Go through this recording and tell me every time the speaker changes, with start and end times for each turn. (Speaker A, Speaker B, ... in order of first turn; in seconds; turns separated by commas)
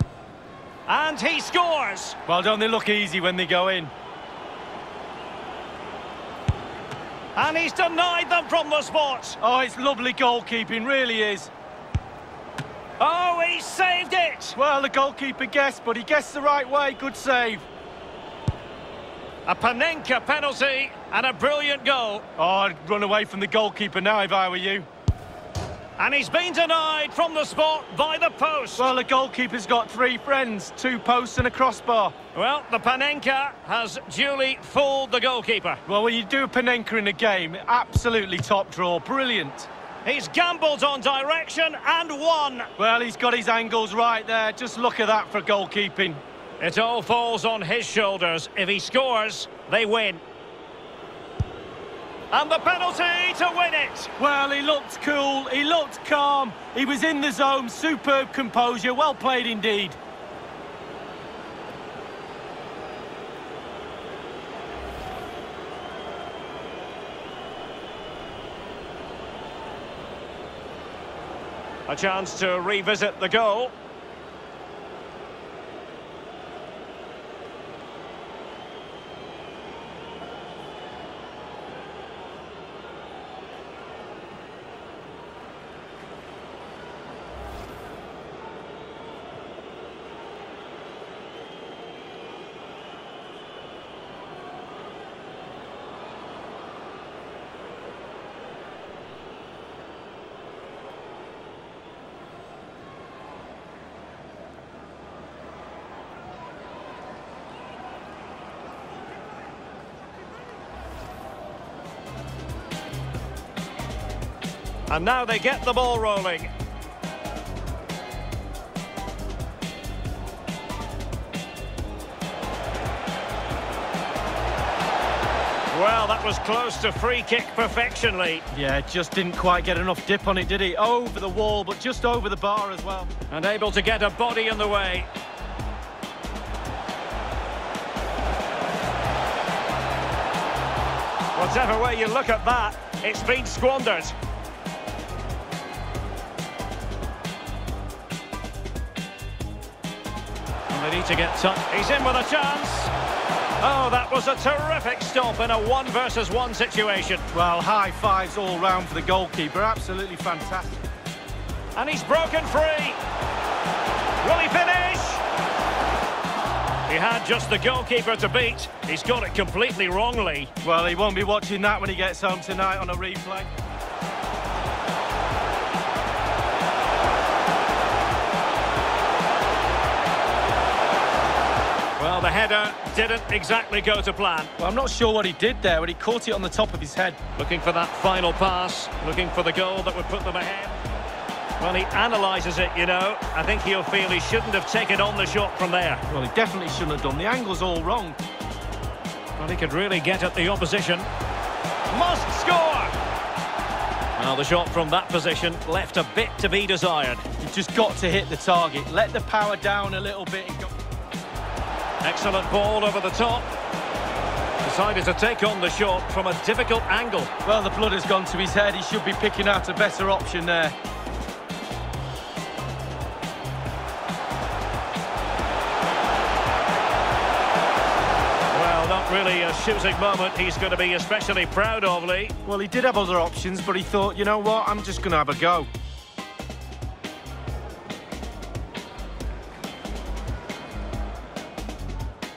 Speaker A: 0.9-2.2, Speaker B: 2.3-3.9, Speaker A: 7.3-9.4, Speaker B: 9.4-11.5, Speaker A: 13.0-14.6, Speaker B: 14.6-17.6, Speaker A: 19.4-22.2, Speaker B: 22.4-24.9, Speaker A: 26.0-28.9, Speaker B: 28.8-32.1, Speaker A: 32.3-35.8, Speaker B: 35.9-39.7, Speaker A: 40.0-42.7, Speaker B: 42.8-46.2, Speaker A: 46.6-50.2, Speaker A: 52.3-54.1, Speaker B: 54.2-60.0, Speaker A: 71.9-73.7, Speaker A: 114.9-116.5, Speaker A: 125.7-128.4, Speaker B: 128.5-133.1, Speaker A: 133.3-135.1, Speaker A: 141.3-144.1, Speaker A: 150.7-152.9, Speaker A: 153.6-157.2, Speaker B: 157.3-160.8, Speaker A: 161.8-163.0, Speaker A: 164.2-165.2, Speaker A: 166.9-170.5, Speaker B: 170.6-173.5, Speaker A: 182.0-184.5, Speaker B: 184.6-187.2, Speaker A: 187.4-190.7, Speaker A: 191.6-196.0, Speaker B: 196.1-198.2, Speaker A: 199.4-201.1, Speaker A: 201.9-202.9, Speaker A: 204.2-207.2, Speaker B: 207.4-210.7, Speaker A: 212.0-213.5, Speaker A: 214.6-217.3, Speaker B: 217.4-220.8, Speaker A: 228.5-232.3, Speaker B: 232.5-235.7